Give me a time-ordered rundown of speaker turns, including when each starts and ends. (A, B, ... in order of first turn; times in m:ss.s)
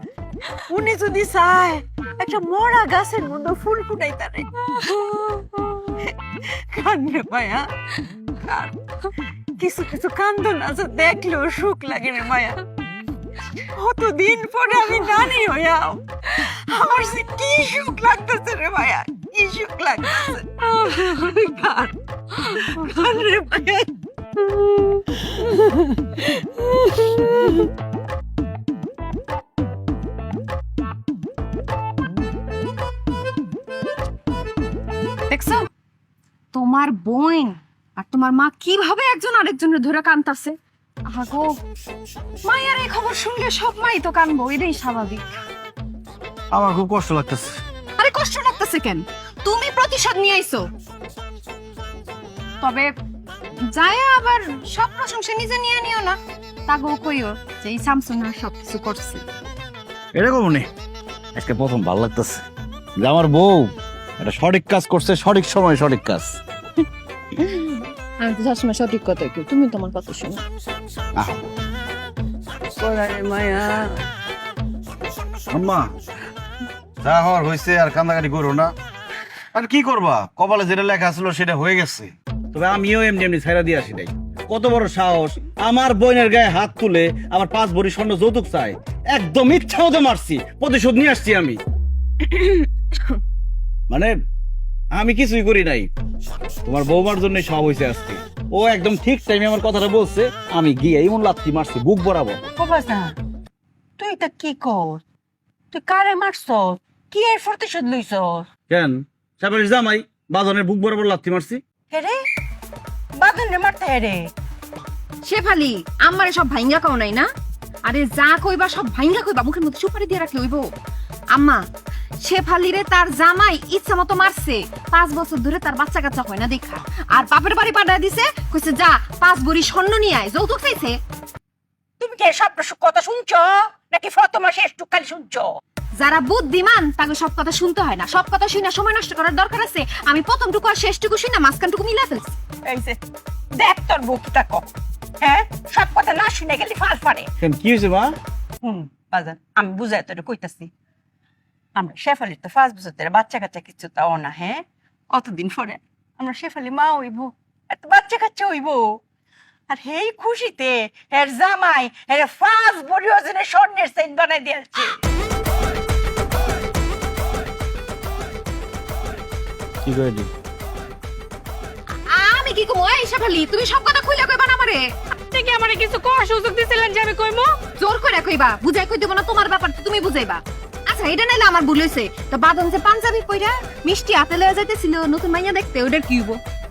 0:00.7-0:04.5 A
0:04.9-0:05.8 B
0:06.5-0:07.7 A
0:08.4-0:08.7 A
0:09.6-0:12.6 A
0:13.6-0:23.9 A
0:25.4-0:27.5 A
0:35.3-0:35.7 C
0:36.5-0:40.6 C
0:41.1-0:41.5 C
0:42.4-0:45.4 C
0:46.5-0:47.6 D
0:48.0-0:50.6 C
0:52.6-0:52.9 C
0:53.7-0:56.2 C
0:56.7-0:59.2 C
1:00.1-1:00.7 D
1:01.3-1:02.4 D
1:03.0-1:06.4 D
1:07.4-1:10.4 C
1:11.2-1:11.5 D
1:12.7-1:14.0 D
1:15.5-1:15.9 D
1:17.0-1:18.7 D
1:19.5-1:31.6 D
1:32.2-1:33.1 C
1:34.9-1:35.9 D
1:36.6-1:42.4 D
1:42.6-1:43.1 A
1:44.0-1:45.0 A
1:45.7-1:48.4 A
1:48.7-1:51.6 D
1:51.9-1:52.2 A
1:53.2-1:54.2 A
1:55.2-1:57.3 C
1:57.8-2:00.7 C
2:01.3-2:01.6 C
2:02.2-2:11.0 C
2:12.0-2:15.5 A
2:16.0-2:22.3 C
2:22.6-2:23.0 A
2:23.5-2:27.3 A
2:27.4-2:28.2 D
2:28.6-2:30.7 A
2:31.7-2:39.0 A
2:39.7-2:45.0 A
2:49.8-2:50.3 D
2:52.1-2:54.8 C
2:55.1-2:57.5 B
2:57.8-3:06.4 C